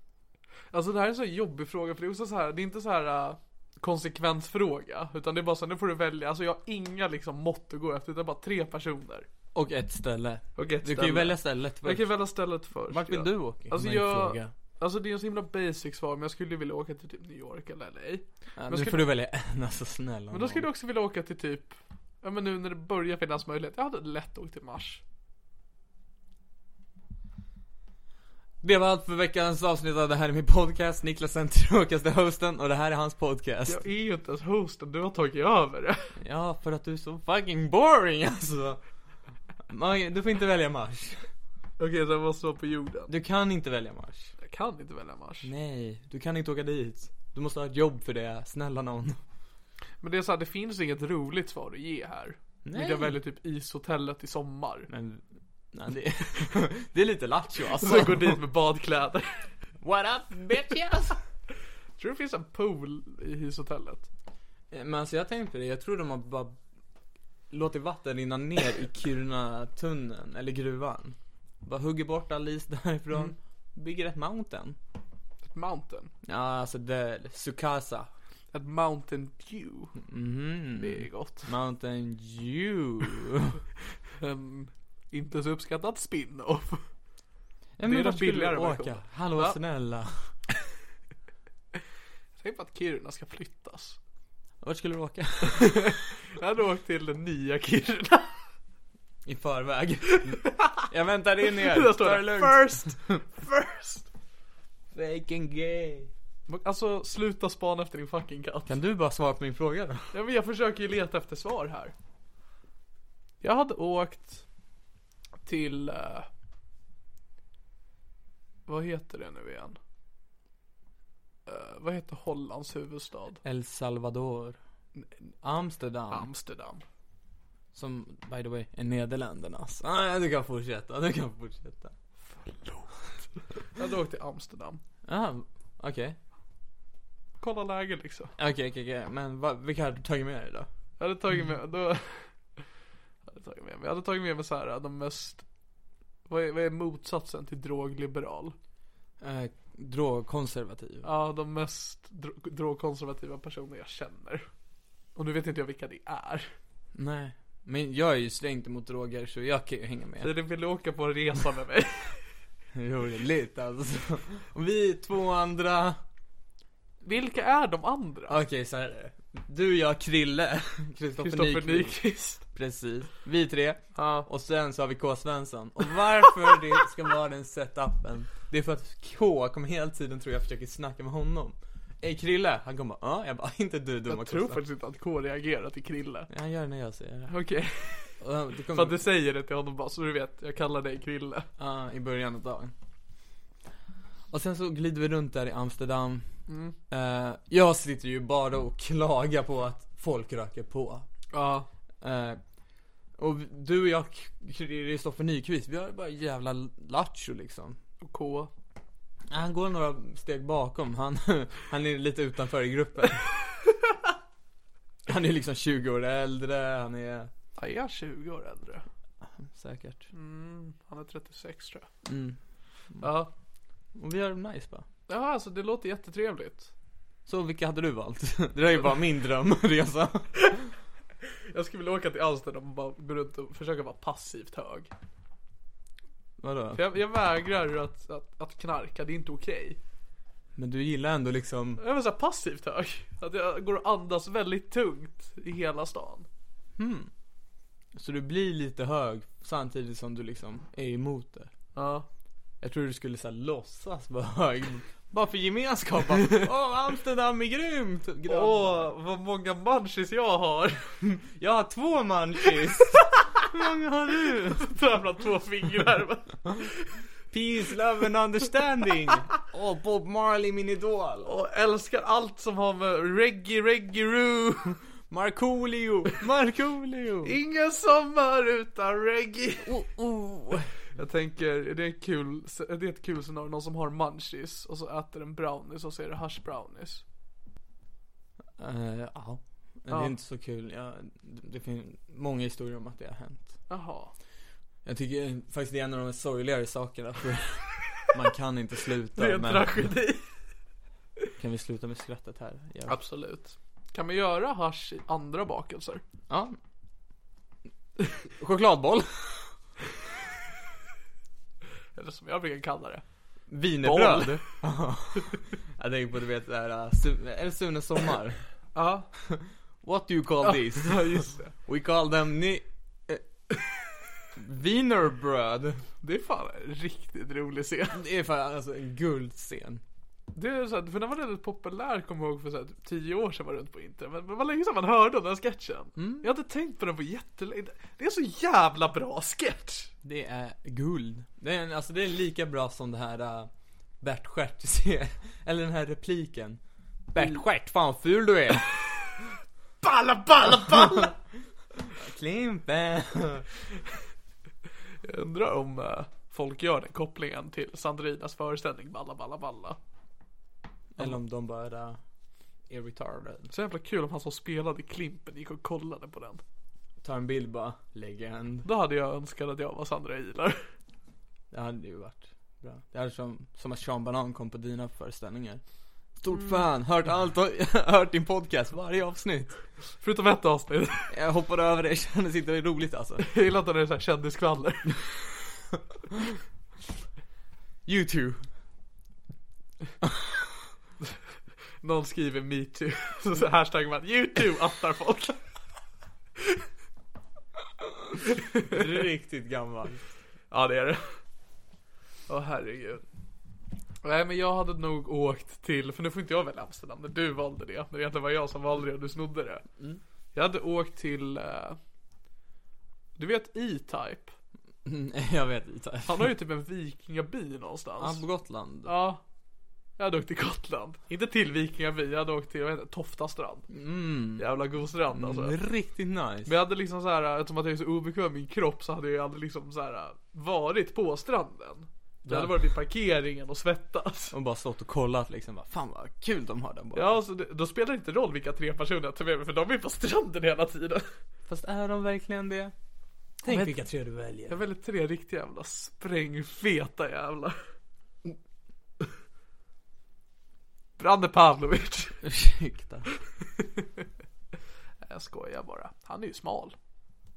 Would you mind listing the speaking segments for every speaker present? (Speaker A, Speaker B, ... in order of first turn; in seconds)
Speaker A: 0.7-9.3, 10.6-19.0, 20.3-25.0, 33.7-36.1, 41.8-43.1, 44.4-45.5, 50.0-54.9, 57.8-59.5, 62.0-64.1, 75.4-76.1, 78.5-80.0, 80.8-81.5, 84.1-86.8, 87.8-89.6, 92.4-94.0, 95.5-98.4, 100.3-100.7, 101.4-104.1, 106.5-108.8, 110.1-111.9, 113.4-114.4, 115.4-116.3, 118.7-119.8, 121.5-123.4, 126.1-126.8, 132.3-133.0, 133.7-134.8, 137.4-138.3, 141.0-142.6, 143.2-145.4, 146.3-148.5, 151.0-154.5, 155.1-156.5, 160.2-162.2, 167.0-168.4, 171.2-172.4, 173.9-174.3, 184.1-186.3, 187.3-191.5, 196.5-196.8, 201.3-201.7, 208.0-208.5, 217.6-218.8, 220.1-221.9, 223.0-223.3, 225.1-226.7, 231.2-234.9, 236.7-239.8, 241.8-246.3, 251.7-252.1, 258.3-261.0, 264.5-266.9, 271.2-274.8, 277.2-279.7, 280.9-287.0, 289.9-290.1, 293.7-294.1, 299.1-300.2, 302.9-306.0, 311.9-313.0, 313.8-314.5, 318.7-319.1, 320.4-321.5, 326.0-328.0, 330.3-339.9, 349.8-351.1, 355.0-359.8, 363.5-366.4, 368.6-370.7, 380.0-381.1, 383.2-385.0, 391.8-395.4, 398.2-398.8, 400.5-401.2, 402.3-403.0, 404.0-409.6, 410.3-411.8, 413.1-414.3, 416.1-418.2, 418.8-419.2, 420.0-423.7, 424.4-425.6, 426.4-434.3, 436.9-441.1, 443.4-443.8, 444.5-447.6, 451.0-452.2, 453.6-454.0, 455.0-456.7
Speaker B: 9.5-12.1, 12.9-14.5, 18.6-20.7, 28.6-33.8, 36.2-38.8, 39.7-41.3, 43.1-44.3, 45.4-49.2, 52.6-53.2, 54.9-58.4, 59.8-61.2, 64.7-66.6, 67.5-74.8, 76.2-78.1, 80.0-83.6, 87.8-90.3, 94.6-95.9, 99.2-102.9, 104.9-106.1, 108.7-110.1, 123.4-124.6, 125.4-126.3, 127.7-131.9, 135.1-136.2, 138.4-140.7, 149.2-151.1, 156.9-160.3, 162.7-166.0, 168.3-184.6, 186.3-187.3, 188.2-189.0, 191.6-192.7, 194.3-196.3, 196.9-201.1, 202.0-202.4, 203.2-207.8, 209.3-213.2, 215.1-217.3, 219.4-220.1, 222.0-222.4, 223.9-224.8, 227.3-230.7, 236.4-236.8, 240.6-241.8, 246.8-247.1, 247.9-251.5, 252.6-258.9, 261.1-264.7, 267.3-271.3, 275.1-277.3, 279.6-280.7, 288.6-293.6, 294.8-299.8, 301.4-303.0, 306.3-306.6, 308.4-309.5, 313.5-318.4, 319.3-323.2, 324.3-325.8, 327.9-329.8, 336.0-336.3, 340.0-343.5, 344.0-346.6, 347.1-348.8, 350.4-351.1, 351.9-353.5, 360.9-362.0, 362.7-363.5, 367.0-368.7, 371.5-375.6, 376.2-379.5, 381.1-383.3, 387.9-388.4, 398.6-400.0, 414.8-416.3, 418.0-418.9, 423.7-424.5, 425.1-426.5, 432.2-432.6, 434.3-437.2, 441.5-442.7, 443.4-444.6, 452.2-453.1